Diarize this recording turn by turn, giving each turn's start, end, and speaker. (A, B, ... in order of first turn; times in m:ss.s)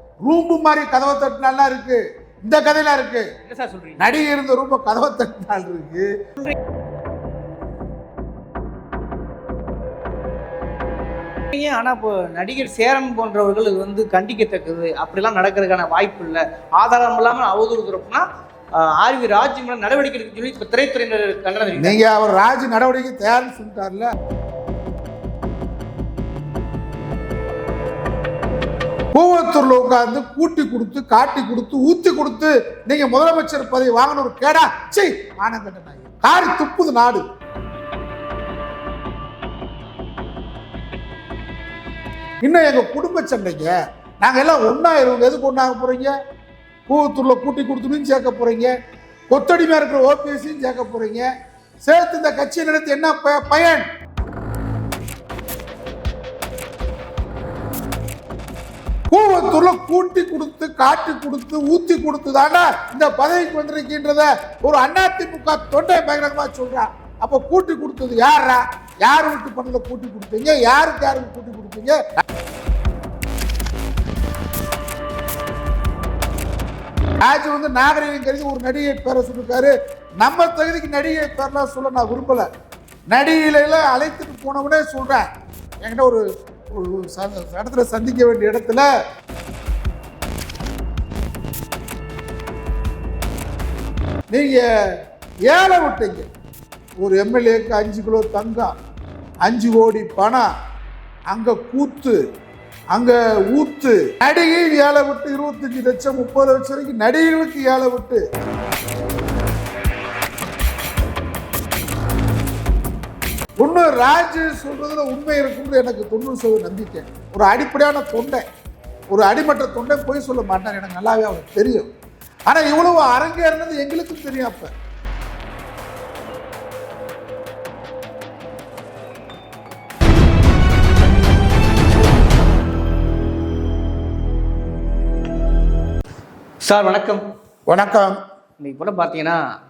0:00.2-0:03.3 A
0:03.4-0:04.0 B
0:04.0-0:06.1 A
0:11.5-0:22.0 B
0:21.8-0:24.1 A
0:29.1-0:37.2 A
0:42.4-0:46.1 A
0:46.9-0:48.7 A
0:49.3-0:51.3 A
0:51.8-0:53.8 A
0:59.1-1:12.2 A
1:17.2-1:22.5 A
1:23.1-1:25.3 A
1:25.8-1:28.9 A
1:34.3-1:34.7 A
1:35.4-1:36.3 A
1:37.0-1:38.7 A
1:39.4-1:40.5 A
1:41.3-1:42.2 A
1:42.9-1:48.2 A
1:53.6-1:58.4 A
1:59.1-2:01.9 A
2:02.5-2:04.7 A
2:16.6-2:17.2 B
2:17.7-2:18.2 A
2:18.6-2:19.4 B